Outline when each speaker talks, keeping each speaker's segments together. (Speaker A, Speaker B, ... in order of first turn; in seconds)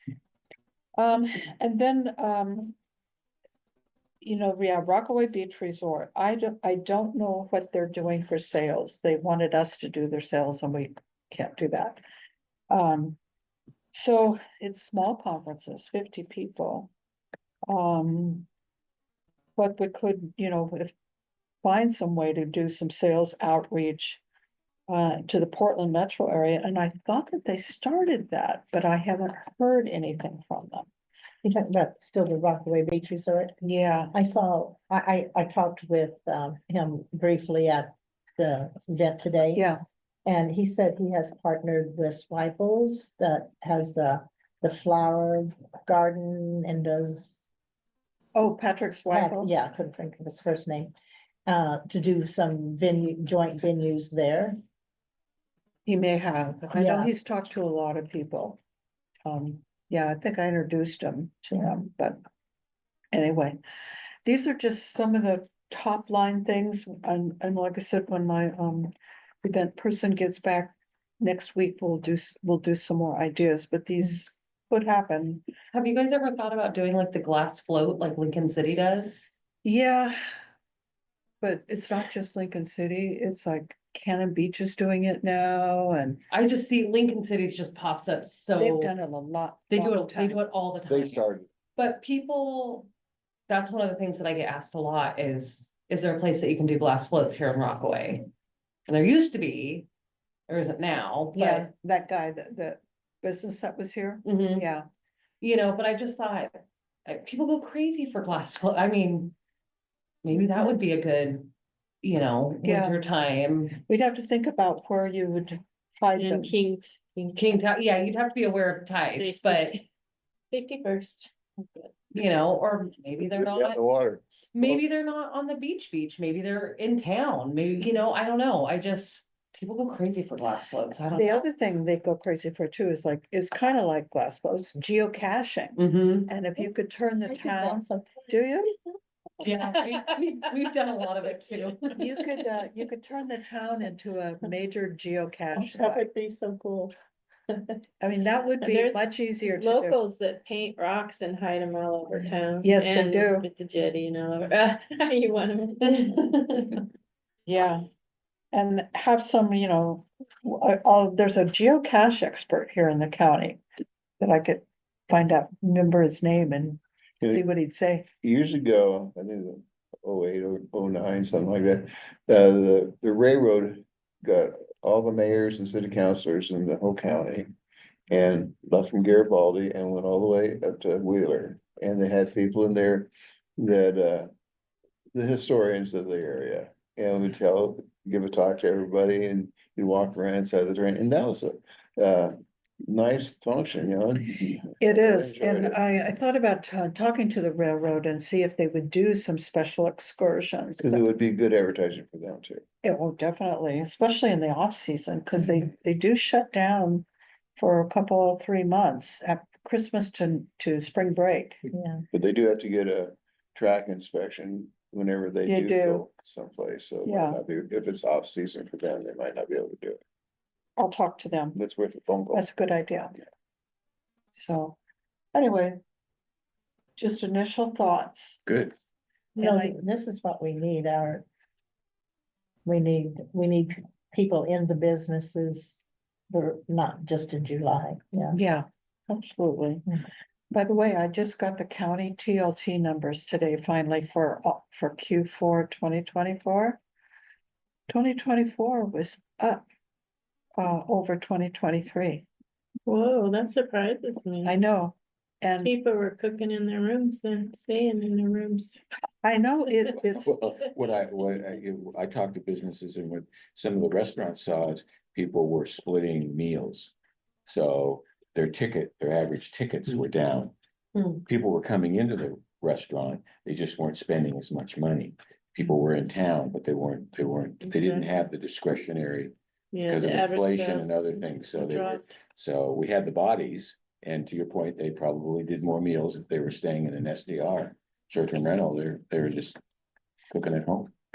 Speaker A: 1.0-2.8, 4.2-12.0, 12.7-13.2, 13.9-16.9, 17.7-18.5, 19.6-20.9, 21.6-24.2, 24.9-30.9, 33.6-34.1, 39.5-39.8, 48.3-49.5, 55.9-58.6, 59.2-62.2, 63.1-63.6, 64.2-75.4, 79.6-80.2, 81.4-86.2, 88.5-90.4, 101.3-104.9, 112.6-113.1, 113.8-116.6, 131.1-138.7, 139.4-139.7, 141.9-146.0, 148.0-150.0, 152.6-153.4, 157.5-157.9, 158.5-163.6, 164.2-168.1, 194.8-201.0, 202.8-211.6, 215.4-216.1, 217.0-217.4, 220.8-221.6, 222.3-223.2, 224.3-224.8, 225.3-225.8, 227.0-228.4, 229.4-229.8, 238.3-239.8, 240.5-246.8, 247.9-249.6, 250.6-252.3, 254.4-255.8, 259.2-260.3
Speaker B: 31.4-33.5, 34.1-39.6, 40.2-47.4, 49.1-50.9, 51.5-54.6, 56.7-57.1, 137.2-138.4, 145.5-146.9, 211.7-212.0, 229.3-231.2, 232.6-238.4
Speaker C: 75.7-79.3, 86.3-88.9, 89.7-92.9, 93.5-98.3, 98.9-99.9, 100.5-101.7, 104.2-104.7, 105.4-109.3, 110.2-111.5, 112.0-113.8, 117.3-119.8, 122.1-123.8, 124.5-131.3, 135.8-136.3, 139.4-142.0, 270.9-271.2
Speaker D: 90.9-91.5, 123.3-124.8, 167.2-167.4, 168.2-177.5, 178.1-184.3, 185.1-195.8, 200.8-202.6, 212.1-220.0, 221.5-222.5
Speaker E: 116.2-117.6, 119.1-119.8, 120.5-121.9, 148.6-156.8, 252.8-254.6, 255.6-258.8, 277.6-278.1, 279.7-282.0
Speaker F: 228.5-228.7, 259.9-266.9, 267.5-270.5, 271.2-279.3, 279.9-289.6, 290.3-290.9